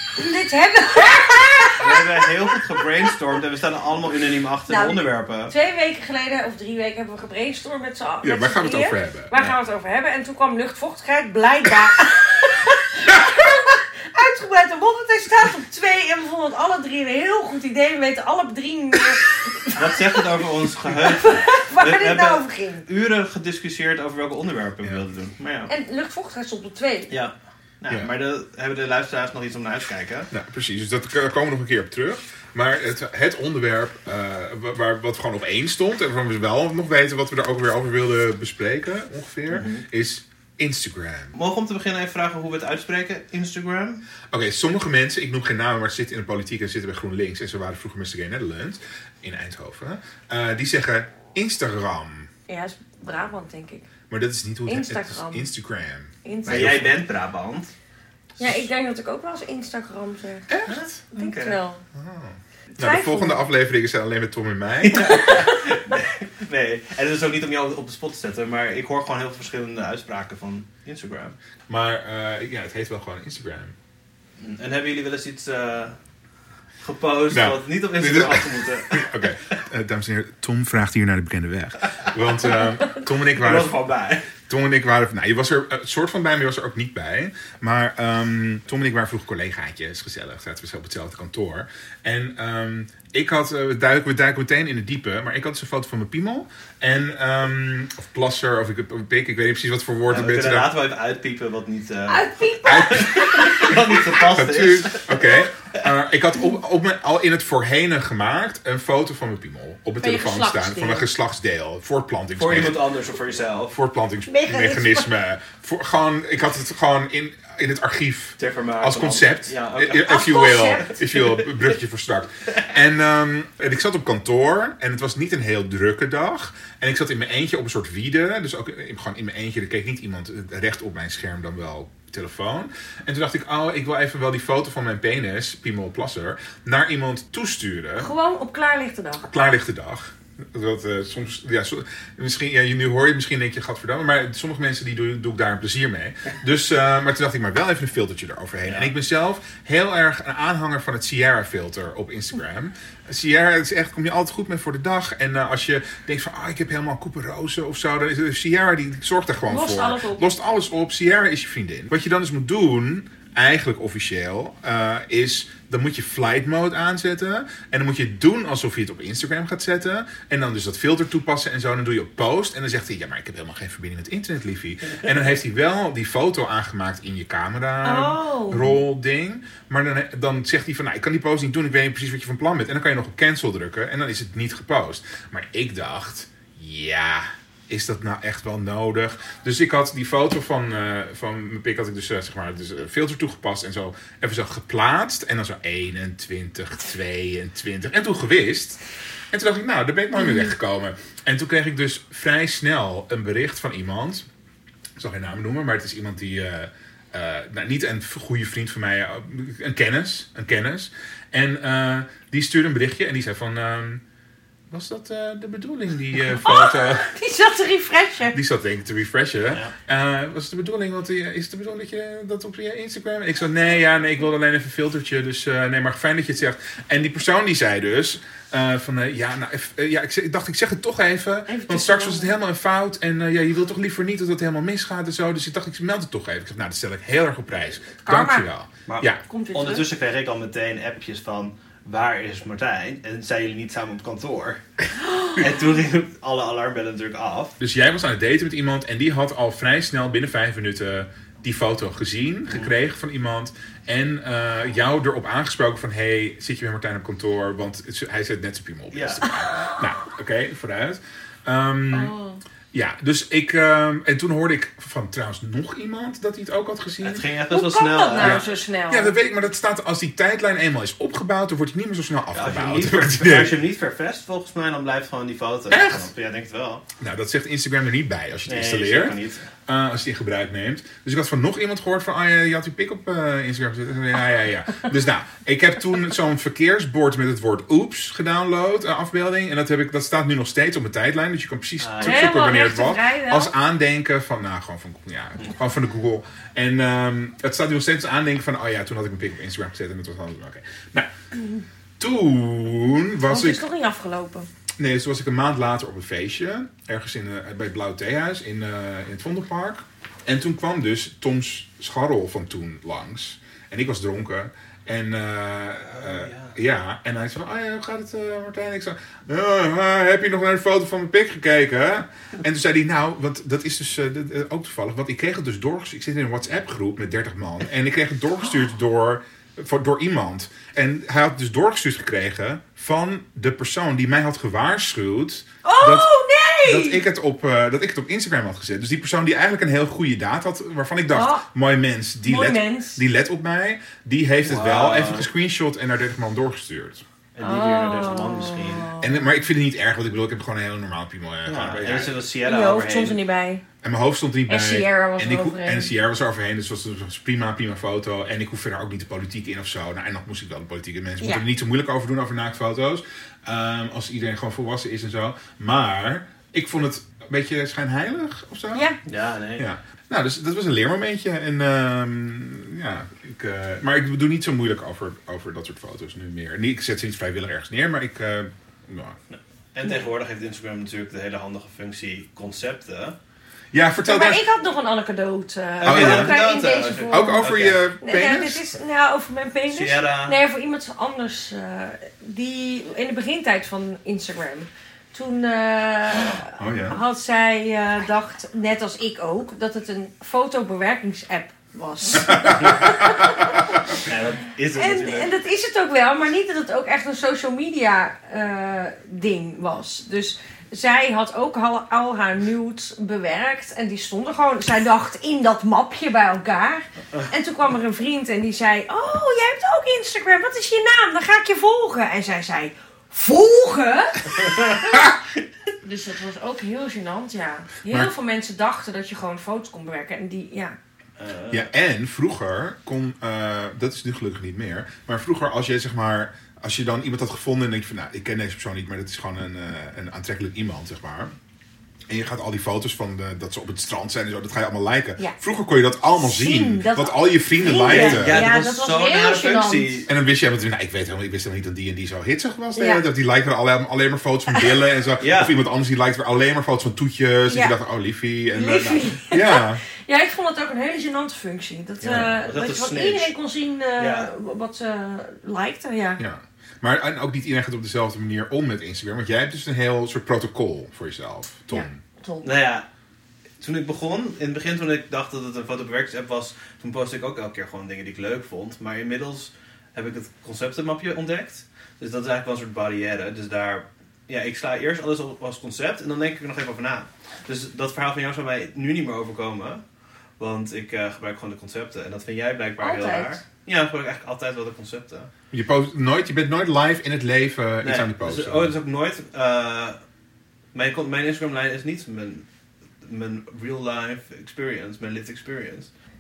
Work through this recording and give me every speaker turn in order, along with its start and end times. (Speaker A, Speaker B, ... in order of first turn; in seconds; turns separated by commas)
Speaker A: 0.2-2.6, Speaker B: 1.8-5.5, Speaker A: 4.7-20.2, Speaker C: 8.2-9.3, Speaker B: 19.7-25.7, Speaker A: 20.9-22.9, Speaker A: 25.7-27.1, Speaker B: 27.1-30.3, Speaker C: 30.3-41.3, Speaker B: 39.5-39.9, Speaker B: 41.3-44.0, Speaker C: 44.3-52.3, Speaker A: 52.5-53.9, Speaker C: 54.1-57.0, Speaker A: 54.7-55.5, Speaker A: 56.2-56.8, Speaker B: 56.5-57.7, Speaker A: 58.4-60.5, Speaker C: 60.5-61.0, Speaker B: 60.7-61.6, Speaker A: 61.1-61.8, Speaker C: 61.9-65.2, Speaker A: 62.8-63.4, Speaker B: 64.8-71.4, Speaker A: 65.0-66.0, Speaker C: 71.7-73.8, Speaker B: 74.4-76.0, Speaker B: 76.8-79.5, Speaker C: 77.3-83.8, Speaker B: 83.3-84.3, Speaker C: 84.5-100.7, Speaker B: 100.1-105.5, Speaker A: 102.1-104.0, Speaker C: 102.7-103.1, Speaker C: 104.2-112.8, Speaker A: 110.0-111.1, Speaker B: 112.3-113.8, Speaker C: 113.7-138.1, Speaker A: 114.3-115.1, Speaker B: 118.4-120.2, Speaker A: 120.0-121.0, Speaker A: 138.0-139.3, Speaker C: 139.2-198.8, Speaker A: 159.5-160.2, Speaker A: 177.8-178.8, Speaker C: 199.3-204.3, Speaker C: 205.0-214.0, Speaker C: 214.7-217.1, Speaker A: 216.4-218.4, Speaker C: 218.3-239.2, Speaker A: 231.5-232.3, Speaker A: 238.0-238.5, Speaker B: 238.9-244.6, Speaker A: 239.3-239.9, Speaker B: 245.3-247.6, Speaker C: 247.6-262.1, Speaker B: 258.9-259.3, Speaker A: 261.9-262.4, Speaker C: 262.7-267.2, Speaker B: 267.0-268.4, Speaker A: 267.5-269.1, Speaker C: 268.2-273.6, Speaker B: 272.3-276.8, Speaker C: 275.7-276.1, Speaker C: 277.0-301.1, Speaker B: 278.5-279.4, Speaker B: 291.8-292.3, Speaker A: 292.0-293.5, Speaker C: 302.0-303.6, Speaker A: 303.3-304.5, Speaker C: 304.8-336.1, Speaker B: 315.9-316.6, Speaker A: 335.6-337.0, Speaker C: 336.6-347.0, Speaker A: 341.1-341.5, Speaker A: 342.2-343.0, Speaker B: 344.4-345.3, Speaker B: 347.4-348.9, Speaker A: 347.4-349.2, Speaker C: 349.0-352.2, Speaker B: 351.5-353.2, Speaker A: 352.4-353.6, Speaker C: 353.8-368.9, Speaker A: 354.5-355.9, Speaker A: 368.7-369.0, Speaker B: 369.1-369.6, Speaker C: 369.6-379.2, Speaker B: 379.3-383.2, Speaker C: 383.7-384.4, Speaker A: 384.1-404.0, Speaker B: 385.8-387.8, Speaker C: 385.9-386.4, Speaker C: 387.1-388.6, Speaker B: 389.7-390.4, Speaker C: 396.6-397.0, Speaker C: 402.3-403.4, Speaker B: 404.0-405.3, Speaker A: 404.7-425.0, Speaker A: 425.8-430.8, Speaker B: 431.2-431.7, Speaker C: 431.5-441.3, Speaker C: 442.1-448.5, Speaker A: 446.2-450.0, Speaker B: 447.8-450.1, Speaker C: 450.1-459.8, Speaker A: 452.8-453.0, Speaker B: 455.2-455.6, Speaker A: 457.5-457.8, Speaker A: 458.5-466.2, Speaker B: 462.0-463.3, Speaker B: 464.0-464.3, Speaker C: 466.2-472.0, Speaker A: 471.7-472.5, Speaker B: 472.4-472.9, Speaker B: 473.6-489.8, Speaker B: 490.4-495.3, Speaker A: 492.8-493.4, Speaker C: 495.5-498.7, Speaker B: 497.8-500.0, Speaker B: 500.7-502.4, Speaker B: 503.0-505.9